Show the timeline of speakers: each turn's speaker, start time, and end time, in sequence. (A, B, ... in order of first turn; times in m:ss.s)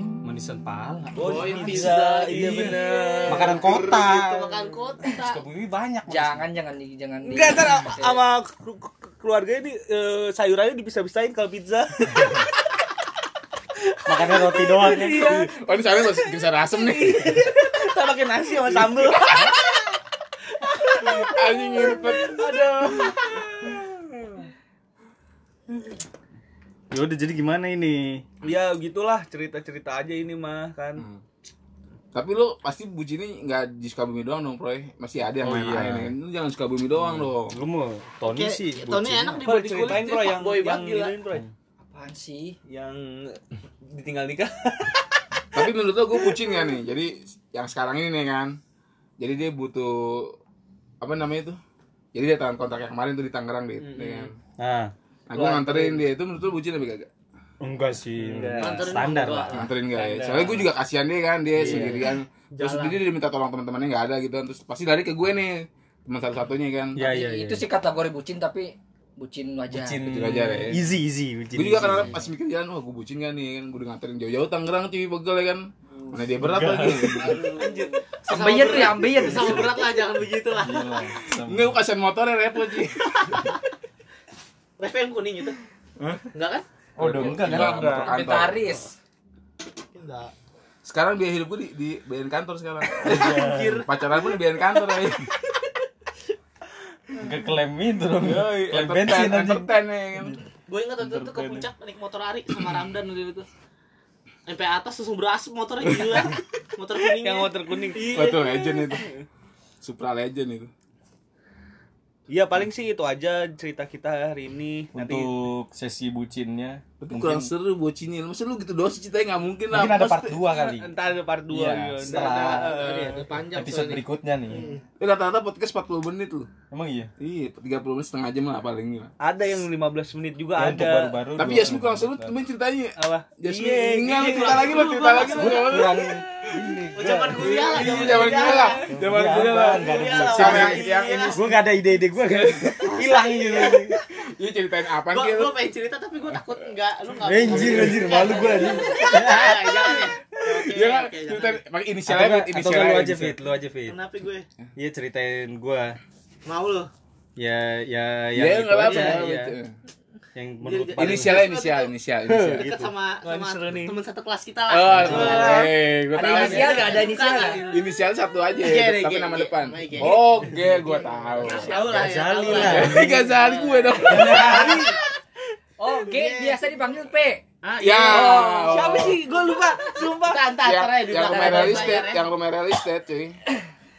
0:00.2-0:01.6 A
0:01.1-0:04.0 B
0:01.1-0:05.4 C
0:01.3-0:01.9 D
0:02.4-0:02.7 A
0:03.3-0:04.6 A
0:05.1-0:06.4 A
0:06.1-0:08.2 D
0:07.2-0:12.4 B
0:14.0-0:15.5 A
0:14.1-0:15.5 B
0:15.2-0:17.3 E
0:16.7-0:19.6 B
0:20.6-0:24.3 B
0:21.0-0:23.2 E
0:26.9-0:28.2 A
0:28.4-0:31.0 B
0:31.0-0:31.2 E
0:32.1-0:37.5 E
0:35.4-0:36.1 A
0:37.0-0:39.5 A
0:38.2-0:41.2 C
0:39.4-0:41.4 B
0:41.8-0:42.6 D
0:42.7-0:45.0 B
0:45.5-0:48.6 E
0:46.2-0:46.6 B
0:49.2-0:50.4 E
0:51.0-0:51.6 E
0:52.1-0:54.3 E
0:53.8-0:54.3 B
0:54.6-0:54.9 A
0:55.3-0:57.1 E
0:55.3-0:56.0 B
0:57.6-1:00.6 A
0:58.2-0:59.2 B
0:58.6-0:59.6 C
0:59.5-1:07.0 E
0:59.9-1:00.5 B
1:01.5-1:02.1 A
1:02.5-1:03.0 C
1:07.0-1:07.6 A
1:07.0-1:10.0 D
1:09.7-1:12.2 A
1:10.0-1:10.8 E
1:11.5-1:17.4 E
1:16.4-1:17.5 A
1:17.2-1:21.1 C
1:17.6-1:17.9 B
1:18.3-1:19.7 D
1:19.2-1:19.7 A
1:20.6-1:21.8 A
1:21.3-1:23.5 E
1:24.8-1:25.6 C
1:26.0-1:26.3 E
1:26.3-1:26.6 C
1:27.0-1:28.1 A
1:27.0-1:28.6 E
1:27.2-1:28.1 B
1:27.8-1:28.9 D
1:29.9-1:30.3 C
1:30.8-1:35.3 E
1:33.0-1:33.8 A
1:33.0-1:33.9 C
1:37.1-1:40.4 A
1:38.2-1:40.4 E
1:40.7-1:43.5 C
1:41.1-1:41.6 A
1:44.5-1:48.5 C
1:47.2-1:49.2 B
1:48.0-1:49.1 E
1:49.8-1:50.7 E
1:52.3-1:55.3 B
1:54.9-1:57.5 A
1:57.0-2:00.3 E
1:59.7-2:00.9 A
1:59.8-2:03.3 B
2:01.5-2:04.7 A
2:02.0-2:04.8 C
2:05.0-2:06.5 E
2:06.7-2:07.1 A
2:07.2-2:09.1 E
2:09.2-2:11.2 B
2:10.5-2:12.3 A
2:11.3-2:16.1 E
2:13.0-2:21.3 B
2:14.1-2:15.6 C
2:15.2-2:16.2 A
2:17.0-2:18.8 C
2:17.4-2:21.4 E
2:18.9-2:24.0 A
2:19.8-2:21.4 C
2:22.2-2:23.1 E
2:23.9-2:25.6 E
2:25.1-2:31.6 C
2:27.2-2:30.0 A
2:27.5-2:28.0 E
2:30.5-2:33.4 E
2:32.0-2:34.0 A
2:33.9-2:34.5 C
2:34.8-2:36.0 A
2:36.4-2:36.9 C
2:37.4-2:39.6 A
2:38.3-2:39.7 E
2:38.8-2:39.2 C
2:40.3-2:41.5 A
2:40.6-2:41.9 C
2:41.0-2:42.7 E
2:42.3-2:42.9 A
2:42.5-2:47.9 C
2:43.2-2:44.0 B
2:44.7-2:47.0 E
2:45.0-2:45.7 B
2:45.0-2:45.5 A
2:46.1-2:47.6 D
2:47.7-2:51.7 E
2:48.6-2:55.0 C
2:51.6-2:53.2 A
2:52.5-2:54.8 E
2:54.1-2:54.8 A
2:54.2-2:55.0 B
2:55.8-2:57.4 D
2:56.2-2:56.5 C
2:57.6-2:58.6 C
2:57.8-2:59.2 E
2:58.0-2:59.1 D
2:58.7-3:00.5 B
3:00.0-3:02.3 C
3:00.6-3:03.4 E
3:01.2-3:02.0 D